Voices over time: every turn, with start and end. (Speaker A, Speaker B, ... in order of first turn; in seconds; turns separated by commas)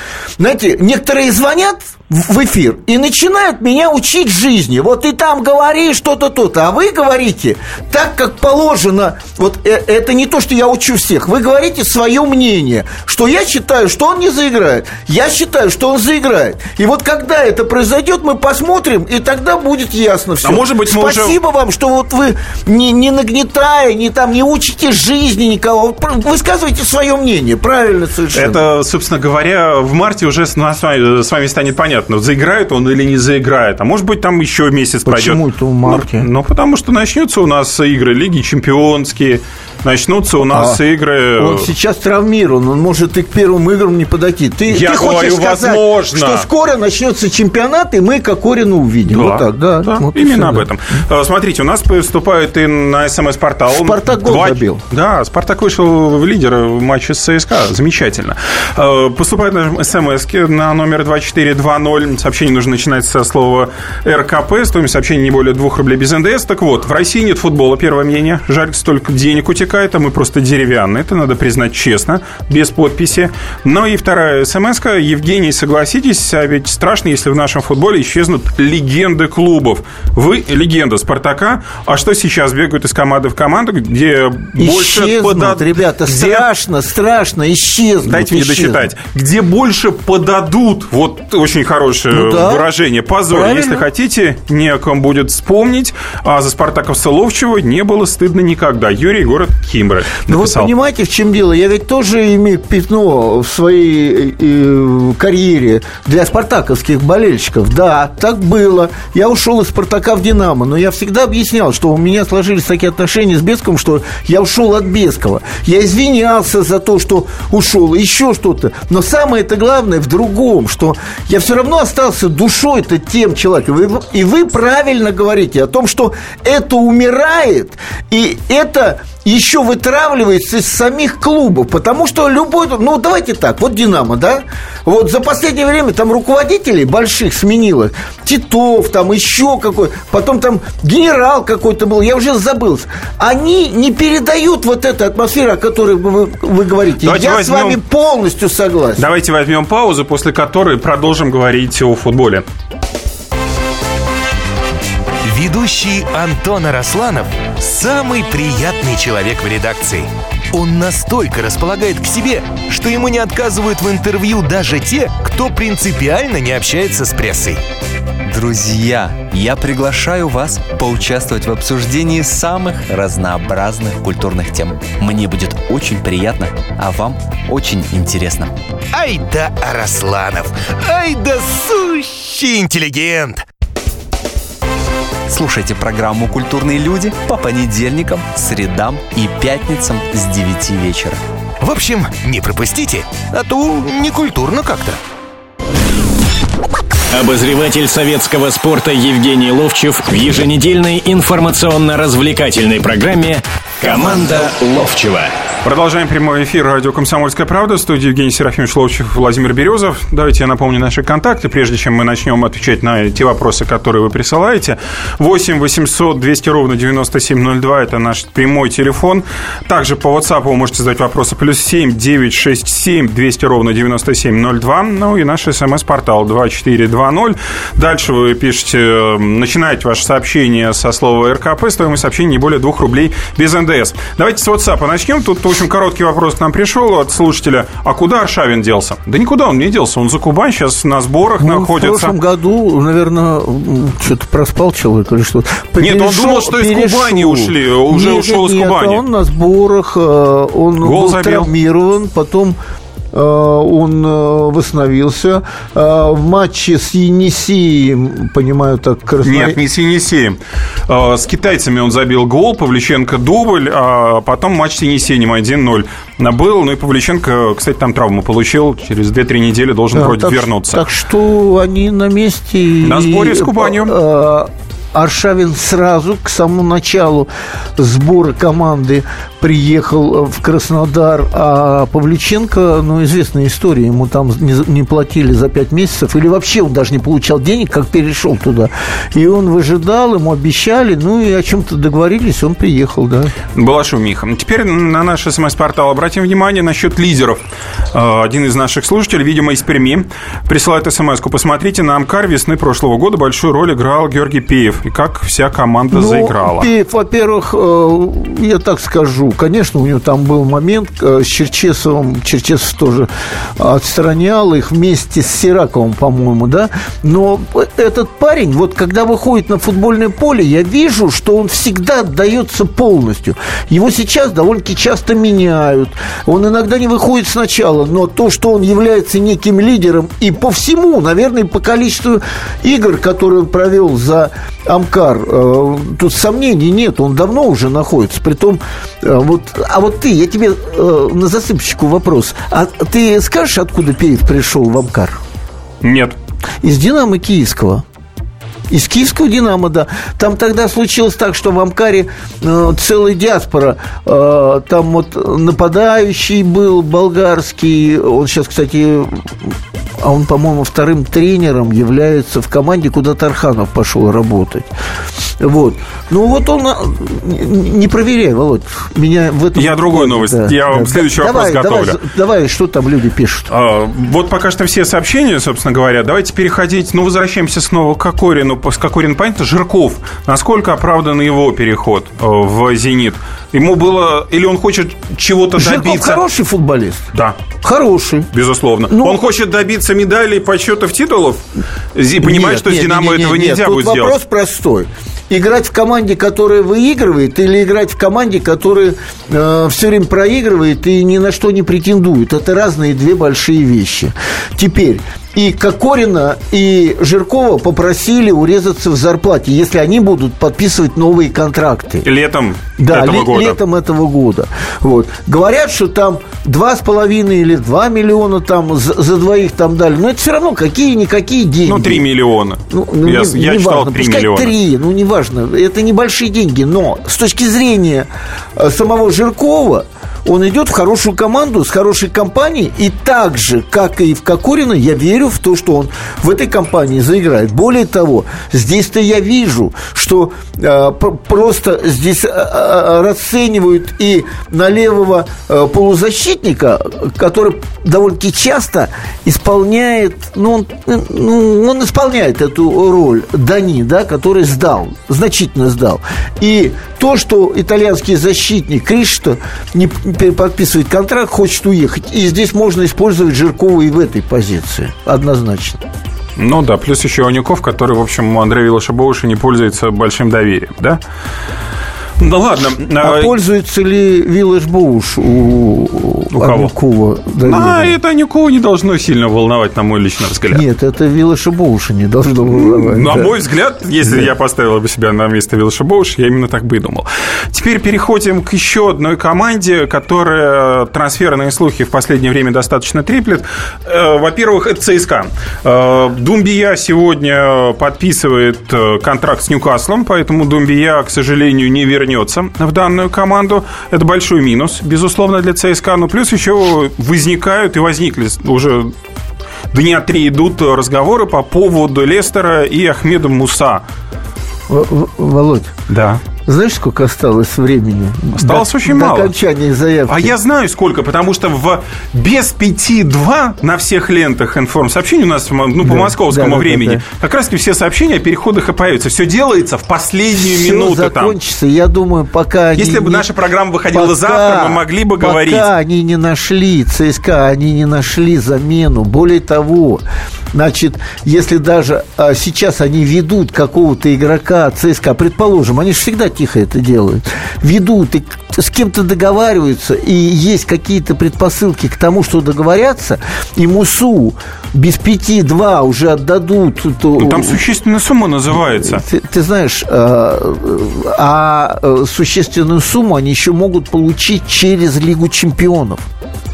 Speaker A: 0.4-28.6, Speaker B: 20.4-21.4, Speaker B: 28.3-41.7, Speaker A: 35.0-36.3, Speaker A: 40.4-40.8, Speaker A: 41.4-50.7, Speaker B: 44.7-46.5, Speaker B: 49.1-86.5, Speaker A: 53.7-54.8, Speaker A: 84.6-88.9, Speaker B: 88.0-100.7, Speaker A: 92.1-92.7, Speaker A: 93.3-93.9, Speaker A: 100.3-149.1, Speaker B: 147.0-147.8, Speaker B: 149.0-152.5, Speaker C: 155.2-167.6, Speaker D: 168.2-178.6, Speaker C: 178.9-183.4, Speaker D: 185.3-191.2, Speaker C: 191.6-195.0, Speaker E: 197.1-205.3, Speaker B: 205.6-242.2, Speaker A: 241.4-252.6, Speaker B: 245.8-249.0, Speaker B: 250.8-251.5, Speaker A: 253.1-259.6, Speaker B: 259.2-270.8, Speaker A: 269.9-293.3, Speaker B: 272.8-273.9, Speaker B: 293.5-306.7, Speaker A: 305.9-345.2, Speaker B: 345.8-346.2, Speaker A: 346.6-347.8, Speaker A: 348.7-364.7, Speaker A: 365.4-373.5, Speaker B: 369.6-372.0, Speaker B: 373.5-386.2, Speaker A: 385.6-387.1, Speaker B: 387.1-387.4, Speaker A: 387.6-388.3, Speaker B: 388.3-394.2, Speaker A: 388.9-389.2, Speaker A: 392.2-412.1, Speaker B: 412.0-413.6, Speaker A: 412.8-422.1, Speaker B: 421.6-424.6, Speaker A: 422.7-465.8, Speaker B: 466.4-471.0, Speaker B: 472.2-473.4, Speaker A: 473.0-478.0, Speaker B: 476.3-476.7, Speaker B: 477.4-480.6, Speaker A: 480.5-483.3, Speaker B: 482.5-508.9, Speaker A: 484.0-484.3, Speaker B: 509.7-513.9, Speaker A: 514.7-515.7, Speaker B: 515.9-516.2, Speaker A: 516.5-520.4, Speaker B: 518.4-519.3, Speaker B: 520.1-531.4, Speaker A: 525.8-527.0, Speaker A: 530.4-533.3, Speaker B: 532.8-535.7, Speaker A: 533.9-557.6, Speaker B: 557.2-559.0, Speaker A: 558.5-566.0